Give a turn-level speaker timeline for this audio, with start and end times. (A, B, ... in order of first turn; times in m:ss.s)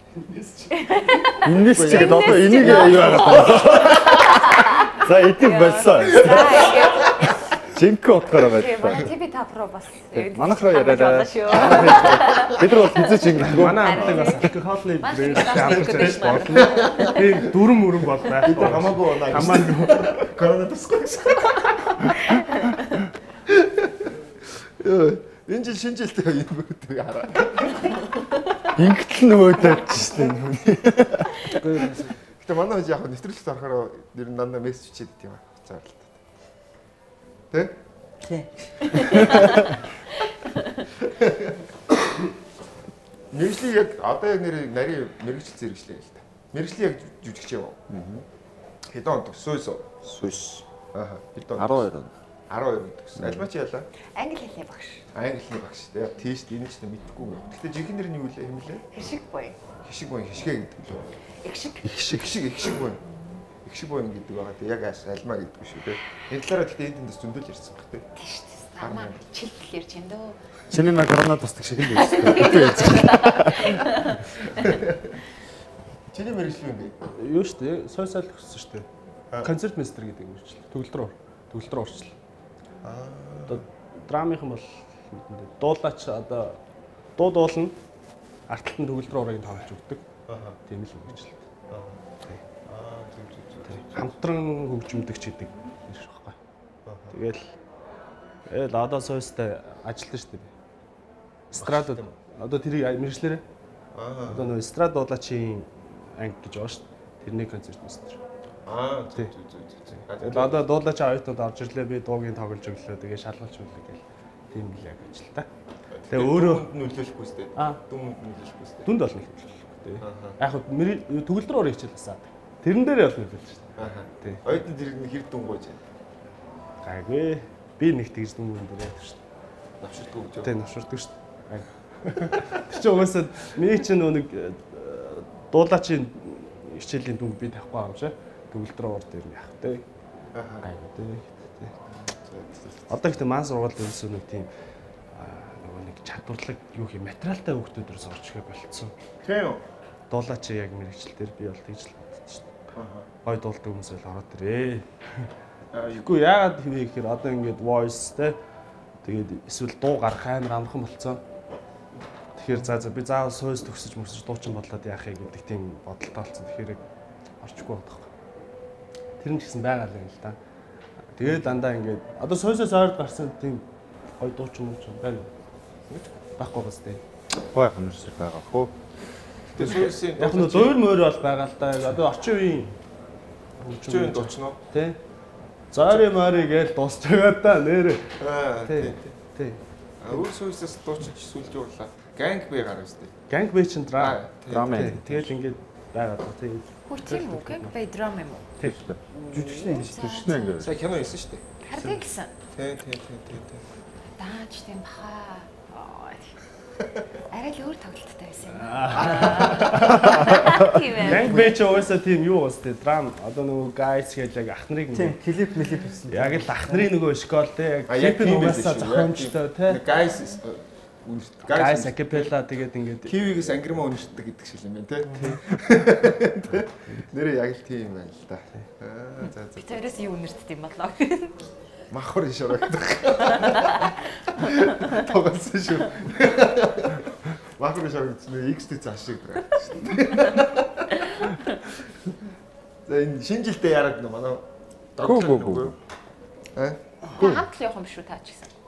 0:00.7-0:07.3 A
0:01.4-0:07.0 B
0:01.7-0:03.1 C
0:07.6-0:09.1 B
0:08.3-0:17.2 A
0:10.1-0:14.4 B
0:11.6-0:12.4 C
0:13.4-0:20.3 D
0:15.5-0:17.5 C
0:18.4-0:22.2 C
0:22.3-0:22.8 A
0:23.5-0:27.9 C
0:28.7-0:31.5 B
0:31.5-0:32.2 E
0:32.4-0:36.2 C
0:38.2-0:39.8 E
0:39.0-0:39.4 A
0:41.0-0:41.6 C
0:43.3-0:47.8 C
0:47.9-0:48.2 B
0:48.9-0:49.9 C
0:50.0-0:50.6 B
0:50.9-0:51.8 C
0:51.5-0:52.1 B
0:52.5-0:53.9 C
0:53.2-0:53.5 B
0:54.1-0:55.0 A
0:55.1-0:58.9 C
0:58.9-0:59.6 A
0:59.8-1:01.1 C
1:01.4-1:02.0 A
1:02.0-1:03.0 C
1:03.6-1:08.1 C
1:08.2-1:10.4 A
1:08.8-1:09.2 C
1:10.7-1:14.1 B
1:11.9-1:14.2 A
1:14.6-1:15.2 C
1:16.1-1:16.9 C
1:17.2-1:18.8 D
1:19.4-1:22.1 D
1:22.8-1:23.6 C
1:23.5-1:26.6 D
1:27.2-1:27.8 D
1:28.5-1:30.0 D
1:30.3-1:30.6 C
1:30.7-1:31.5 D
1:31.7-1:32.0 C
1:32.6-1:34.0 C
1:33.7-1:36.4 D
1:36.8-1:37.2 C
1:37.1-1:37.5 D
1:38.5-1:40.5 D
1:41.5-1:43.4 D
1:41.6-1:42.1 C
1:43.9-1:44.5 C
1:44.2-1:48.2 D
1:48.6-1:50.7 C
1:50.0-1:55.5 D
1:55.9-1:58.9 C
1:56.1-1:56.7 D
1:58.8-2:04.6 D
2:00.0-2:00.4 C
2:03.8-2:05.8 C
2:06.8-2:09.2 D
2:09.8-2:10.5 C
2:10.4-2:19.8 D
2:20.3-2:20.6 C
2:20.6-2:21.7 D
2:21.9-2:23.0 C
2:22.9-2:24.5 D
2:25.1-2:28.9 D
2:29.2-2:29.6 C
2:30.1-2:32.5 D
2:32.7-2:33.1 C
2:33.2-2:35.3 D
2:35.7-2:36.1 C
2:35.9-2:38.4 D
2:39.0-2:41.2 D
2:42.4-2:46.8 D
2:47.4-2:48.1 D
2:49.2-2:50.4 D
2:51.1-2:53.6 D
2:54.2-2:55.3 D
2:55.9-2:56.2 C
2:56.4-2:57.0 D
2:57.5-2:58.7 B
2:59.5-3:00.8 C
2:59.6-3:02.8 D
3:03.6-3:05.0 D
3:03.9-3:04.6 C
3:05.7-3:09.6 D
3:05.8-3:06.1 C
3:08.2-3:09.1 C
3:10.0-3:13.1 C
3:13.3-3:17.7 D
3:14.0-3:15.0 C
3:14.5-3:15.3 B
3:16.9-3:18.6 A
3:18.6-3:19.0 B
3:19.3-3:20.0 E
3:19.3-3:20.7 A
3:19.9-3:20.7 B
3:20.6-3:21.4 C
3:21.6-3:22.3 A
3:22.5-3:23.6 C
3:24.2-3:26.4 A
3:27.3-3:31.4 A
3:28.5-3:35.2 D
3:29.0-3:30.3 C
3:30.1-3:30.6 B
3:30.9-3:31.8 C
3:34.9-3:36.9 E
3:36.1-3:39.8 D
3:37.9-3:42.3 C
3:41.5-3:43.2 D
3:43.0-3:49.8 C
3:45.1-3:45.4 D
3:49.6-3:51.5 A
3:51.9-4:01.3 C
3:53.5-3:53.9 A
4:02.8-4:04.4 C
4:05.0-4:05.7 C
4:05.0-4:05.7 B
4:06.5-4:06.8 C
4:07.1-4:08.5 A